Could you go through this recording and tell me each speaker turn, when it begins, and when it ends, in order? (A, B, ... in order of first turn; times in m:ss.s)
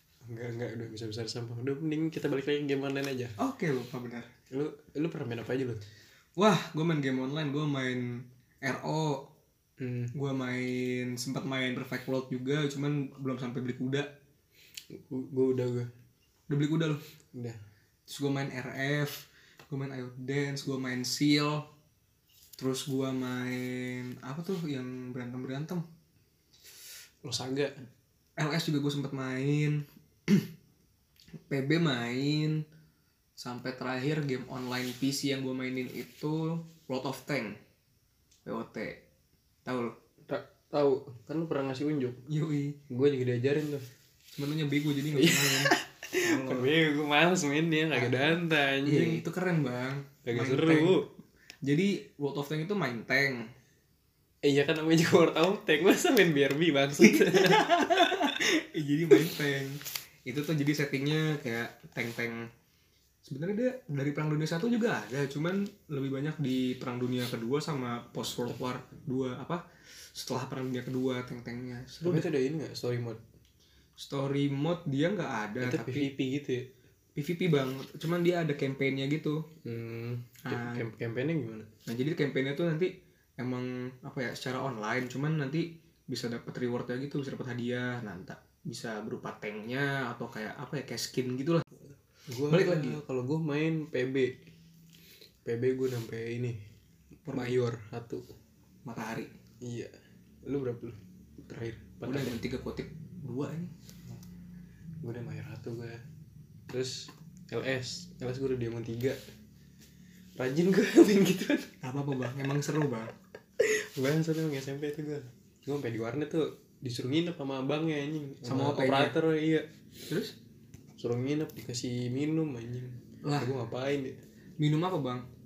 0:00.2-0:03.4 A
0:03.4-0:04.3 B
0:04.5-0:05.8 A
0:06.4-0:09.2 B
0:09.8-0:10.1 A
0:10.1-0:14.1 B
0:14.9-0:15.9 A
0:16.5-0:17.0 B
0:17.3-0:17.6 A
0:18.1-0:21.7 B
0:22.6-0:25.8 B
0:27.2-0:27.7 A
0:28.4-0:30.5 B
0:31.5-0:32.6 B
0:33.4-0:37.6 B
0:38.5-0:39.0 B
0:39.7-0:39.9 B
0:40.3-0:42.2 A
0:42.3-0:42.8 B
0:42.9-0:43.9 A
0:44.4-0:46.7 B
0:45.1-0:49.2 A
0:47.9-0:51.0 B
0:50.2-0:51.1 A
0:51.6-0:53.5 B
0:54.4-0:58.2 A
0:57.0-1:02.5 B
1:03.2-1:09.6 B
1:10.2-1:12.3 B
1:12.0-1:13.2 A
1:14.0-1:16.1 B
1:15.6-1:16.7 A
1:17.2-1:19.4 B
1:19.6-1:21.7 A
1:20.4-1:20.8 B
1:21.9-1:31.9 B
1:32.3-1:34.3 A
1:32.5-1:33.0 B
1:35.4-1:36.6 A
1:37.2-1:37.6 B
1:37.3-1:38.2 A
1:38.9-1:39.3 B
1:39.6-1:39.9 A
1:40.5-1:42.4 A
1:42.0-1:43.7 B
1:45.0-1:46.0 A
1:46.7-1:49.2 A
1:50.4-1:51.7 A
1:51.8-1:53.1 B
1:53.6-1:59.7 A
1:58.4-1:59.2 B
2:01.0-2:04.2 A
2:03.2-2:03.5 B
2:04.6-2:05.2 B